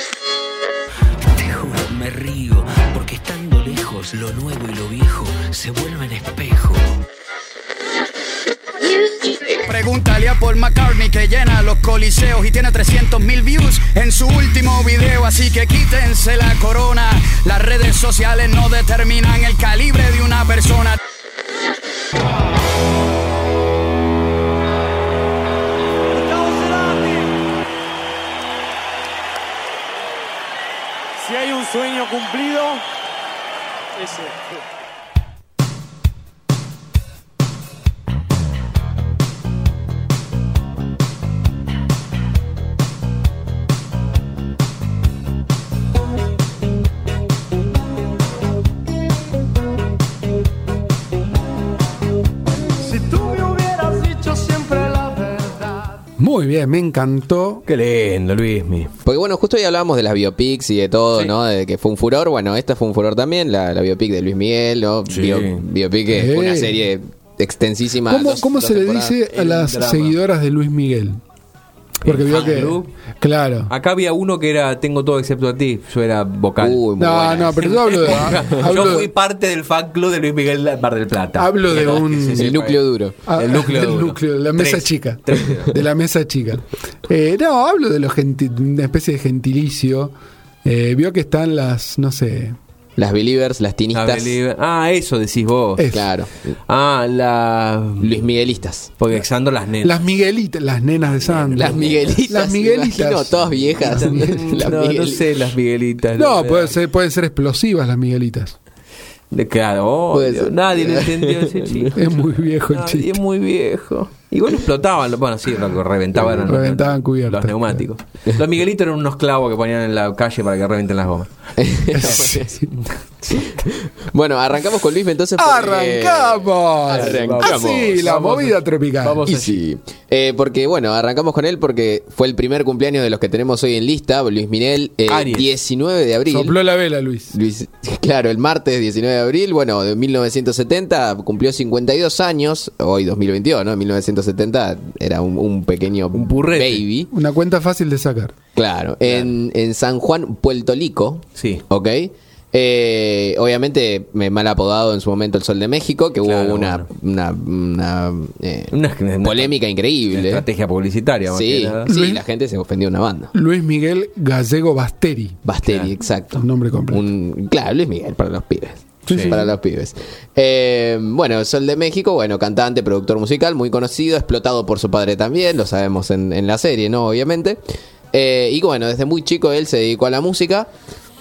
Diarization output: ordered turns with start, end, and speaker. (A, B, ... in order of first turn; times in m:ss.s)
0:01.4-0:06.8 A
0:01.5-0:06.7 B
0:09.1-0:21.0 C
0:26.1-0:27.2 D
0:31.2-0:32.8 D
0:34.0-0:34.4 D
0:52.9-0:55.8 D
0:56.2-0:57.6 E
0:57.6-0:58.9 B
0:59.0-1:09.2 F
1:05.1-1:05.6 B
1:06.1-1:06.8 E
1:08.1-1:11.2 E
1:09.3-1:10.2 B
1:12.0-1:13.7 E
1:12.0-1:13.0 B
1:13.7-1:16.8 B
1:16.6-1:17.8 F
1:17.0-1:19.1 E
1:17.6-1:25.8 B
1:21.4-1:22.5 E
1:22.3-1:23.2 F
1:23.3-1:32.6 E
1:33.0-1:34.4 F
1:33.9-1:35.9 B
1:35.8-1:36.1 E
1:35.9-1:36.5 F
1:36.5-1:38.2 B
1:38.0-1:38.9 F
1:39.0-1:40.0 B
1:39.8-1:44.6 E
1:41.5-1:45.4 F
1:43.9-1:46.8 B
1:46.2-1:48.6 E
1:49.3-2:01.3 B
1:50.1-1:51.9 F
1:51.9-1:53.2 E
1:56.4-1:57.8 E
2:01.6-2:02.6 F
2:01.9-2:02.6 E
2:02.8-2:03.5 B
2:03.3-2:08.1 F
2:05.4-2:09.2 E
2:06.9-2:09.6 B
2:09.2-2:16.6 F
2:15.1-2:15.5 B
2:16.2-2:17.3 E
2:17.3-2:27.1 F
2:26.1-2:26.8 B
2:27.1-2:28.3 E
2:28.6-2:40.5 F
2:29.0-2:29.3 B
2:31.4-2:31.6 B
2:36.2-2:36.9 B
2:38.7-2:39.5 B
2:40.1-2:41.9 B
2:41.3-2:43.3 F
2:41.9-2:42.2 E
2:43.3-2:45.4 E
2:45.4-2:57.6 F
2:46.3-2:47.0 E
2:49.1-2:49.4 B
2:49.1-2:49.5 E
2:58.1-3:00.7 F